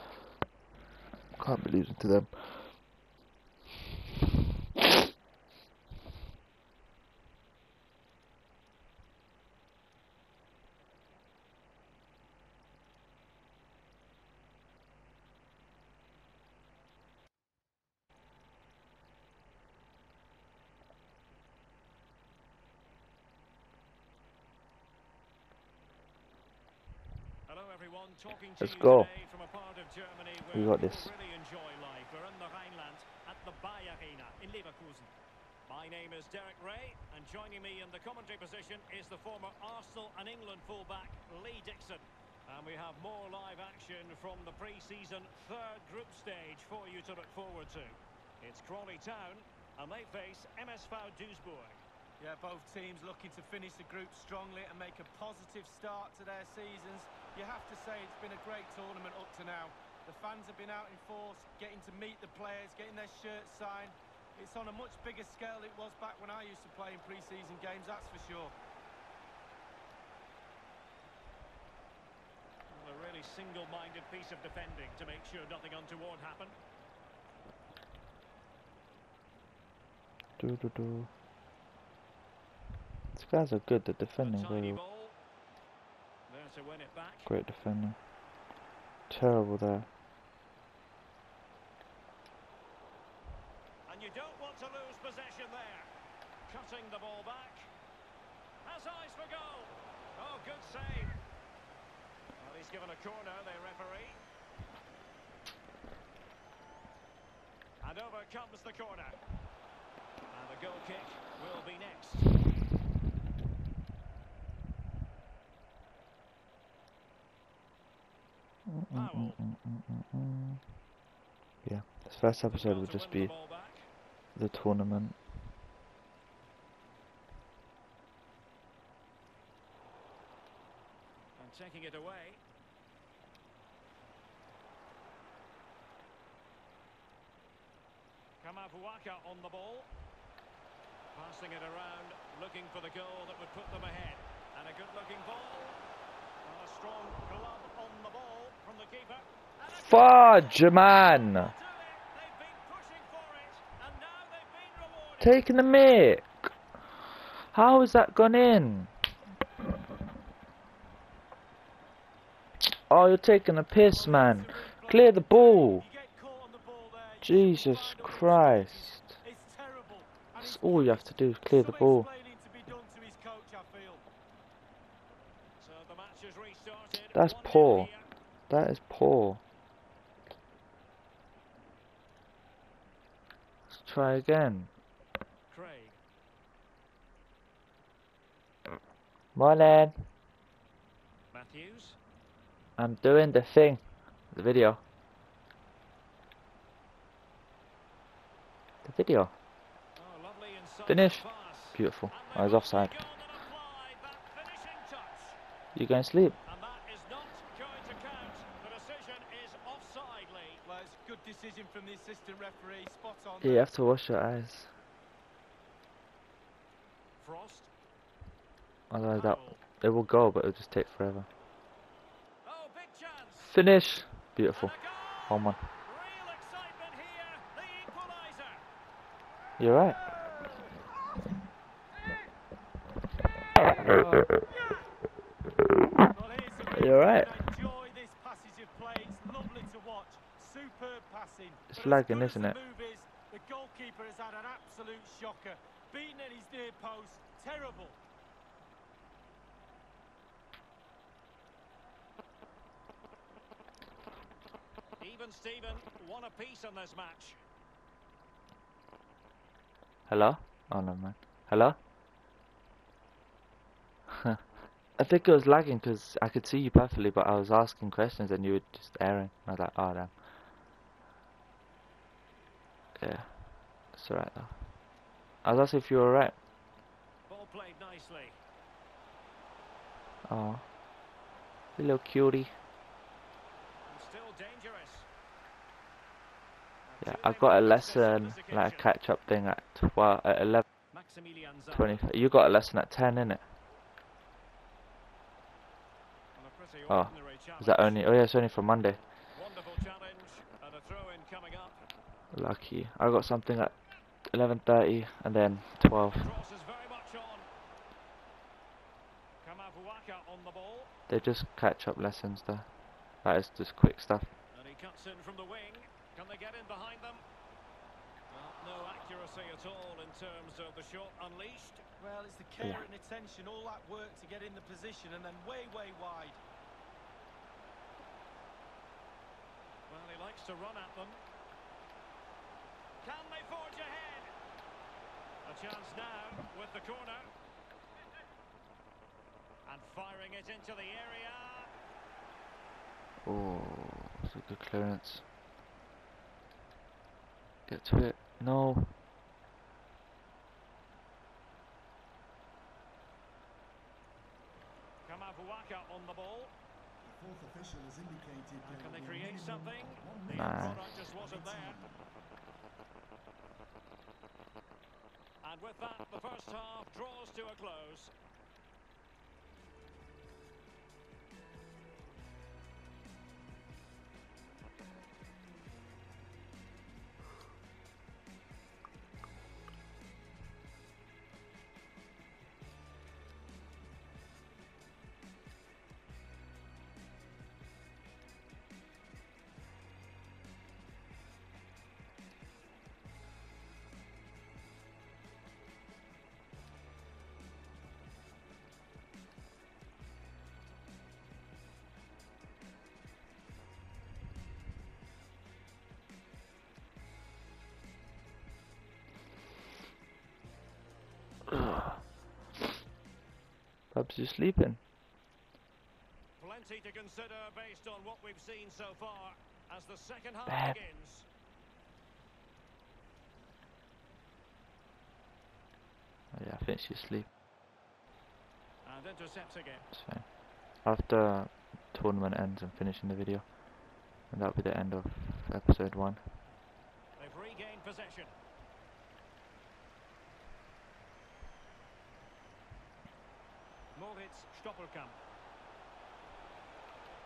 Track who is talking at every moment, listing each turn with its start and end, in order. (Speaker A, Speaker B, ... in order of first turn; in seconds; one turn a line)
Speaker A: 1.4-2.8
Speaker B: 27.5-35.1
Speaker A: 28.6-29.1
Speaker A: 30.5-31.1
Speaker B: 35.7-51.8
Speaker C: 52.2-68.5
Speaker B: 72.7-76.5
Speaker A: 80.4-81.1
Speaker A: 83.1-84.8
Speaker B: 84.2-85.2
Speaker B: 86.3-87.3
Speaker A: 87.2-88.0
Speaker A: 89.1-89.9
Speaker B: 93.9-95.9
Speaker B: 96.5-97.7
Speaker B: 98.6-101.1
Speaker B: 102.4-104.2
Speaker B: 107.8-109.2
Speaker B: 110.3-112.4
Speaker A: 118.7-120.6
Speaker B: 118.9-119.4
Speaker A: 121.6-123.3
Speaker B: 122.5-123.9
Speaker A: 124.3-125.2
Speaker B: 131.3-132.4
Speaker B: 138.4-139.9
Speaker B: 141.1-145.8
Speaker B: 146.4-155.4
Speaker A: 149.7-151.5
Speaker A: 155.2-156.3
Speaker A: 157.5-158.9
Speaker A: 162.9-165.8
Speaker C: 163.8-174.0
Speaker A: 167.2-169.2
Speaker A: 170.4-172.1
Speaker B: 175.6-178.1
Speaker A: 177.1-177.9
Speaker A: 178.5-179.4
Speaker A: 183.7-184.7
Speaker B: 185.5-185.9
Speaker A: 189.3-190.1
Speaker B: 191.3-192.0
Speaker A: 192.8-194.8
Speaker A: 198.8-199.3
Speaker B: 199.9-205.4
Speaker A: 200.9-202.9
Speaker A: 205.7-206.4
Speaker B: 206.4-210.6
Speaker C: 210.6-213.7
Speaker A: 213.4-214.7
Speaker B: 217.2-217.7
Speaker A: 218.9-221.3
Speaker B: 219.1-219.6
Speaker B: 222.4-223.5
Speaker A: 223.4-224.7
Speaker B: 224.6-228.6
Speaker A: 225.3-225.6
Speaker A: 229.6-230.0
Speaker A: 233.8-234.2
Speaker C: 233.9-234.7
Speaker C: 236.1-248.0
Speaker A: 236.7-237.4
Speaker A: 241.7-242.6
Speaker B: 255.0-257.4
Speaker A: 260.1-261.8
Speaker A: 264.1-264.4
Speaker A: 265.0-270.1
Speaker A: 273.0-273.3
Speaker A: 273.9-274.6
Speaker A: 275.4-276.4
Speaker B: 277.3-278.4
Speaker A: 280.2-280.6
Speaker A: 281.8-282.5
Speaker B: 283.9-285.1
Speaker B: 286.9-288.9
Speaker A: 287.0-290.6
Speaker B: 290.9-292.0
Speaker A: 291.7-293.4
Speaker B: 296.3-298.0
Speaker A: 296.9-299.0
Speaker B: 299.3-301.8
Speaker A: 302.3-303.8
Speaker A: 304.3-306.3
Speaker B: 306.1-307.5
Speaker B: 309.4-310.9
Speaker A: 311.1-312.7
Speaker A: 313.2-314.3
Speaker B: 314.5-317.2
Speaker B: 318.3-321.8
Speaker C: 322.0-326.4
Speaker B: 329.9-331.2
Speaker B: 333.0-334.3
Speaker B: 335.4-337.3
Speaker B: 339.6-341.7
Speaker A: 343.2-345.3
Speaker A: 347.7-348.9
Speaker B: 355.0-356.5
Speaker D: 357.0-362.0
Speaker B: 358.6-361.8
Speaker A: 360.3-360.9
Speaker B: 365.4-368.1
Speaker A: 411.5-412.0
Speaker A: 413.9-414.8
Speaker B: 416.4-421.2
Speaker A: 420.5-420.8
Speaker A: 426.3-427.3
Speaker B: 428.8-429.9
Speaker A: 429.9-433.5
Speaker A: 434.3-436.3
Speaker B: 437.2-438.3
Speaker B: 443.9-445.1